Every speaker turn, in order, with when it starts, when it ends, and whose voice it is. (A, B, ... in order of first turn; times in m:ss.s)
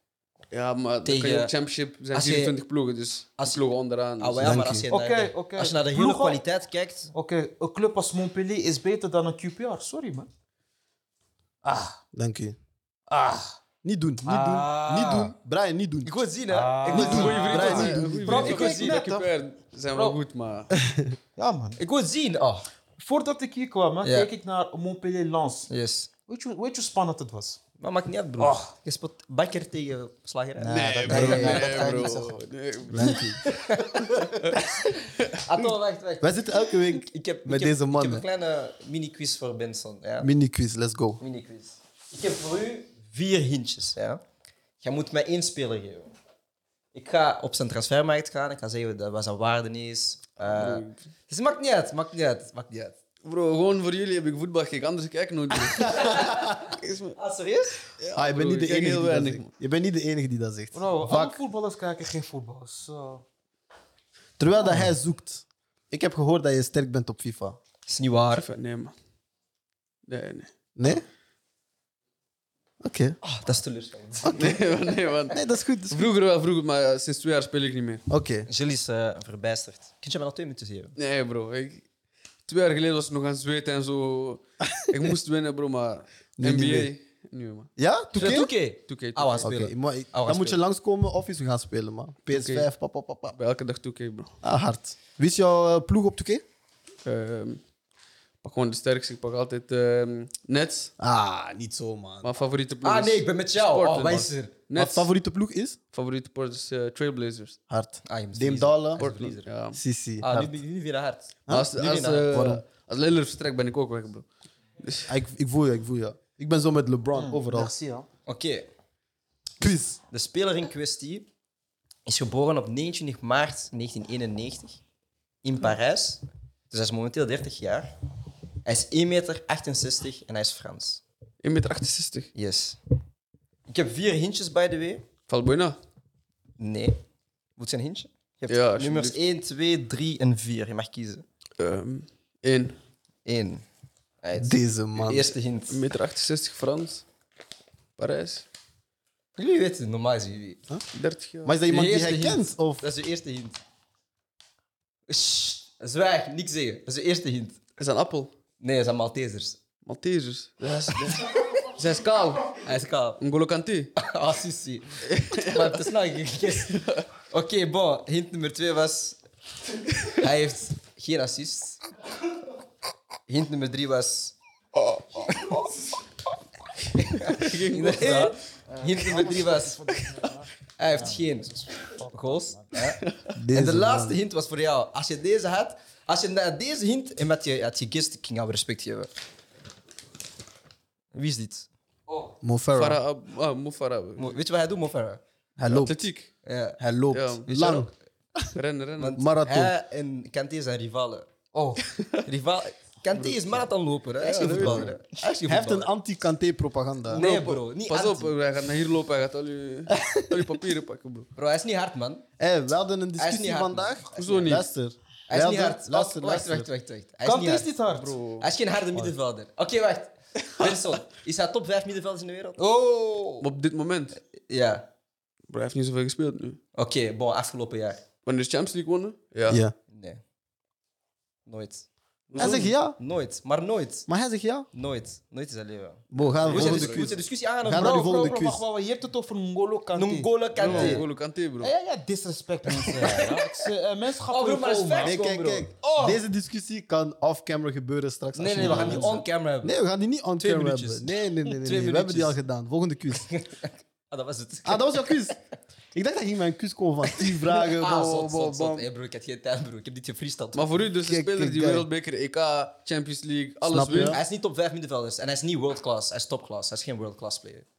0:00.5-0:04.6 A
0:01.0-0:01.5 B
0:02.1-0:02.5 B
0:03.4-0:03.6 B
0:04.2-0:07.1 B
0:04.4-0:04.8 C
0:04.9-0:06.4 D
0:07.1-0:10.3 D
0:11.6-0:12.0 D
0:12.1-0:12.6 C
0:13.1-0:13.6 D
0:13.8-0:16.1 C
0:14.2-0:15.3 D
0:16.0-0:19.1 B
0:16.5-0:19.3 D
0:16.9-0:18.5 C
0:16.9-0:20.7 A
0:19.9-0:20.2 D
0:21.4-0:21.8 D
0:21.8-0:22.7 B
0:23.0-0:25.7 D
0:24.0-0:24.3 B
0:25.7-0:26.1 B
0:26.3-0:27.6 D
0:27.8-0:32.1 B
0:28.4-0:28.7 D
0:30.6-0:32.5 D
0:30.7-0:33.4 A
0:32.9-0:33.5 C
0:33.4-0:34.7 B
0:35.3-0:40.3 B
0:36.2-0:38.2 C
0:40.2-0:41.2 C
0:41.2-0:44.2 B
0:44.8-0:46.1 B
0:46.9-0:53.0 B
0:50.5-0:51.0 A
0:53.2-0:57.2 A
0:55.9-0:56.6 C
0:55.9-0:56.6 B
0:57.1-0:57.8 B
0:58.0-0:59.5 A
0:58.1-1:01.4 C
1:00.7-1:03.2 D
1:04.4-1:07.6 C
1:07.9-1:08.4 B
1:08.3-1:08.9 A
1:10.1-1:11.0 A
1:10.8-1:11.0 C
1:12.8-1:13.2 C
1:13.2-1:14.5 B
1:14.2-1:14.6 C
1:14.3-1:18.0 A
1:15.3-1:16.1 C
1:18.1-1:18.5 C
1:18.5-1:20.9 B
1:21.0-1:21.9 A
1:22.5-1:29.5 A
1:26.4-1:26.9 C
1:27.8-1:28.5 C
1:28.1-1:30.6 B
1:29.4-1:33.3 C
1:32.3-1:32.7 A
1:33.3-1:34.3 A
1:34.4-1:36.4 C
1:37.0-1:37.6 A
1:38.4-1:40.9 A
1:41.0-1:42.4 C
1:42.2-1:45.1 A
1:42.8-1:44.5 B
1:44.7-1:45.8 C
1:45.9-1:47.6 A
1:47.7-1:49.0 C
1:48.0-1:49.5 B
1:49.0-1:49.8 A
1:49.7-1:50.5 C
1:50.2-1:52.3 B
1:51.5-1:52.6 C
1:51.5-1:54.3 A
1:54.8-1:55.1 A
1:55.1-1:57.7 C
1:57.1-1:58.1 D
1:58.2-1:58.7 B
1:59.6-2:00.0 C
2:00.1-2:01.3 B
2:02.1-2:04.8 B
2:05.4-2:07.9 B
2:08.6-2:11.0 B
2:11.4-2:12.3 A
2:12.3-2:12.8 B
2:13.7-2:15.0 B
2:15.3-2:15.8 A
2:16.6-2:17.0 B
2:17.6-2:21.2 B
2:18.5-2:19.2 A
2:21.6-2:22.8 A
2:23.2-2:23.6 B
2:24.2-2:25.8 B
2:24.4-2:25.3 C
2:25.7-2:27.0 A
2:28.0-2:28.4 A
2:29.4-2:30.6 B
2:30.9-2:31.6 A
2:31.4-2:32.8 C
2:31.7-2:33.6 B
2:35.1-2:37.6 B
2:37.8-2:38.3 A
2:38.6-2:39.6 B
2:39.8-2:42.6 A
2:41.1-2:41.6 B
2:42.6-2:43.2 B
2:43.2-2:43.9 A
2:44.0-2:49.2 B
2:45.1-2:45.8 A
2:46.6-2:47.0 A
2:50.1-2:51.8 B
2:53.3-2:54.4 B
2:54.8-2:55.7 A
2:57.0-2:59.8 B
2:57.1-2:58.4 A
2:58.7-3:02.8 D
3:00.8-3:03.0 B
3:03.3-3:04.2 C
3:03.5-3:09.1 B
3:11.1-3:11.7 B
3:12.4-3:13.0 C
3:12.7-3:14.4 A
3:14.2-3:15.2 B
3:15.6-3:16.1 C
3:15.7-3:16.3 A
3:16.4-3:16.8 B
3:16.8-3:18.5 C
3:17.1-3:17.8 A
3:18.5-3:19.2 A
3:19.0-3:21.3 B
3:19.2-3:19.7 C
3:21.5-3:21.8 D
3:21.8-3:22.2 A
3:22.2-3:25.9 B
3:23.2-3:23.6 A
3:24.2-3:25.0 A
3:24.4-3:27.2 C
3:27.1-3:28.3 B
3:27.2-3:31.3 A
3:29.9-3:30.5 C
3:31.4-3:32.2 B
3:32.4-3:36.7 C
3:33.2-3:34.6 B
3:34.1-3:34.7 A
3:35.3-3:37.7 B
3:37.2-3:38.2 D
3:37.9-3:38.4 A
3:38.4-3:42.6 B
3:42.6-3:43.5 D
3:43.4-3:44.2 A
3:44.4-3:44.9 B
3:45.5-3:46.6 A
3:46.7-3:48.0 B
3:48.2-3:49.6 A
3:49.5-3:49.7 C
3:49.9-3:50.2 B
3:51.4-3:54.1 B
3:52.3-3:52.7 A
3:52.4-3:53.0 C
3:54.1-3:54.7 C
3:54.7-3:58.4 B
3:56.1-3:58.6 C
3:56.4-3:57.1 A
3:57.7-4:01.0 D
3:59.9-4:01.0 B
4:00.6-4:01.7 A
4:00.7-4:00.9 C
4:01.6-4:05.2 D
4:02.7-4:03.7 B
4:04.3-4:05.6 B
4:05.0-4:13.3 C
4:05.8-4:06.2 D
4:08.3-4:09.7 B
4:08.5-4:09.2 D
4:10.4-4:12.4 B
4:13.1-4:15.3 B
4:14.6-4:15.4 C
4:15.9-4:18.8 C
4:17.4-4:20.7 B
4:20.5-4:24.2 A
4:21.0-4:21.9 C
4:23.7-4:24.2 C
4:24.0-4:27.6 B